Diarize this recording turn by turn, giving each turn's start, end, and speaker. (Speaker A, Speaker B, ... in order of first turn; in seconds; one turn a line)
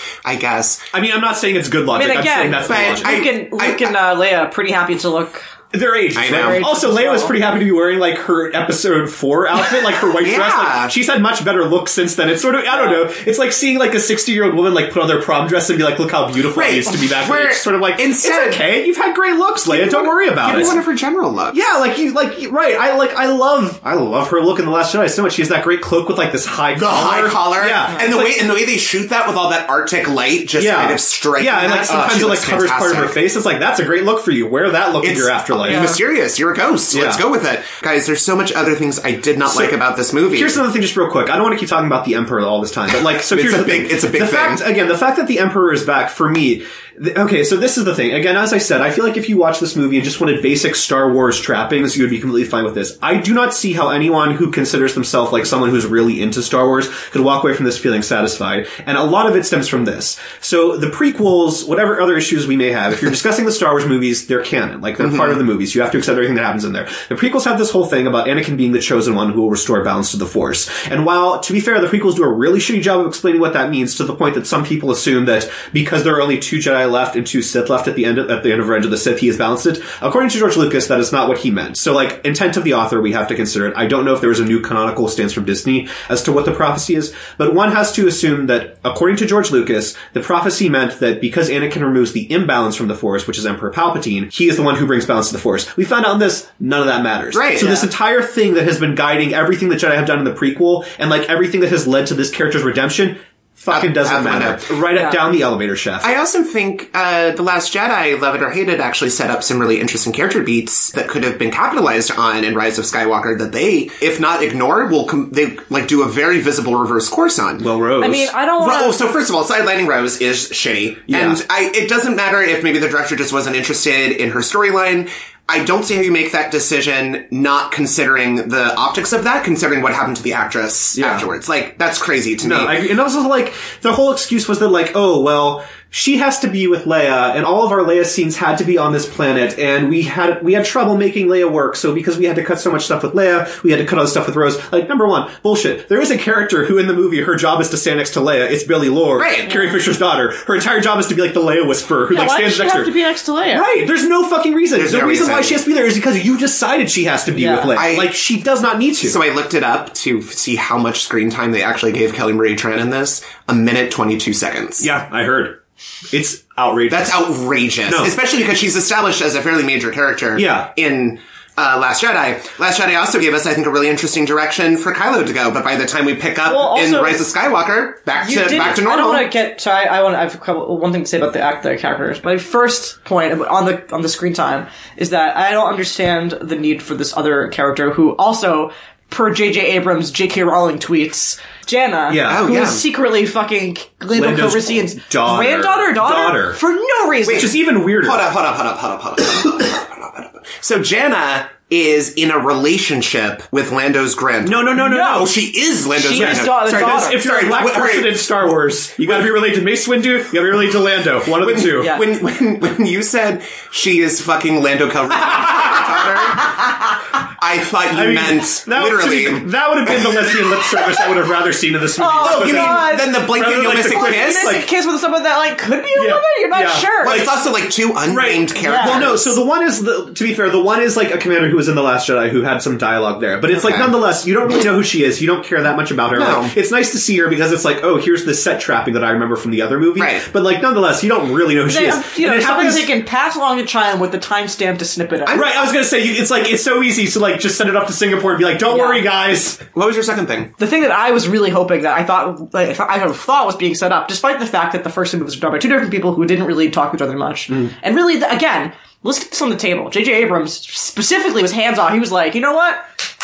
Speaker A: 0.2-0.9
Speaker B: 0.9-3.2
Speaker C: 1.9-5.4
Speaker A: 2.6-3.9
Speaker B: 5.7-20.8
Speaker A: 6.1-6.6
Speaker C: 6.3-7.3
Speaker A: 10.2-10.9
Speaker C: 12.7-13.0
Speaker A: 16.5-18.6
Speaker A: 19.7-21.6
Speaker B: 21.5-28.4
Speaker A: 26.8-33.2
Speaker B: 30.6-36.0
Speaker A: 35.0-40.6
Speaker C: 35.6-36.0
Speaker B: 36.9-37.2
Speaker B: 39.5-39.7
Speaker B: 40.3-106.1
Speaker A: 43.0-44.6
Speaker A: 65.0-65.3
Speaker A: 97.3-97.9
Speaker A: 103.7-104.7
Speaker C: 104.9-105.2
Speaker A: 106.0-117.7
Speaker B: 117.6-118.3
Speaker C: 118.0-119.0
Speaker A: 118.6-132.8
Speaker B: 121.1-121.4
Speaker B: 130.9-131.3
Speaker B: 132.4-152.9
Speaker A: 149.2-149.6
Speaker C: 152.1-153.7
Speaker B: 153.5-159.2
Speaker A: 154.7-155.6
Speaker C: 157.3-157.8
Speaker A: 157.8-158.1
Speaker A: 159.0-164.9
Speaker B: 164.8-165.6
Speaker B: 166.1-167.2
Speaker A: 166.9-179.3
Speaker B: 167.9-168.1
Speaker B: 170.3-170.7
Speaker C: 176.5-177.2
Speaker C: 178.2-197.5
Speaker B: 192.1-192.5
Speaker A: 192.2-192.8
Speaker B: 194.1-196.6
Speaker A: 197.2-208.2
Speaker B: 197.3-198.2
Speaker B: 204.4-205.4
Speaker C: 204.8-205.3
Speaker C: 205.9-207.2
Speaker B: 206.1-212.0
Speaker A: 211.4-216.6
Speaker B: 215.6-216.0
Speaker A: 217.4-220.7
Speaker B: 217.9-224.7
Speaker C: 222.0-223.3
Speaker A: 222.2-224.6
Speaker C: 223.8-227.3
Speaker B: 225.9-227.3
Speaker A: 227.0-229.3
Speaker B: 228.1-242.9
Speaker C: 228.6-229.0
Speaker A: 233.5-233.9
Speaker A: 236.1-236.5
Speaker A: 240.0-240.2
Speaker C: 241.7-245.4
Speaker A: 245.2-245.6
Speaker B: 245.3-249.6
Speaker C: 248.7-249.0
Speaker A: 249.7-250.5
Speaker C: 250.6-262.8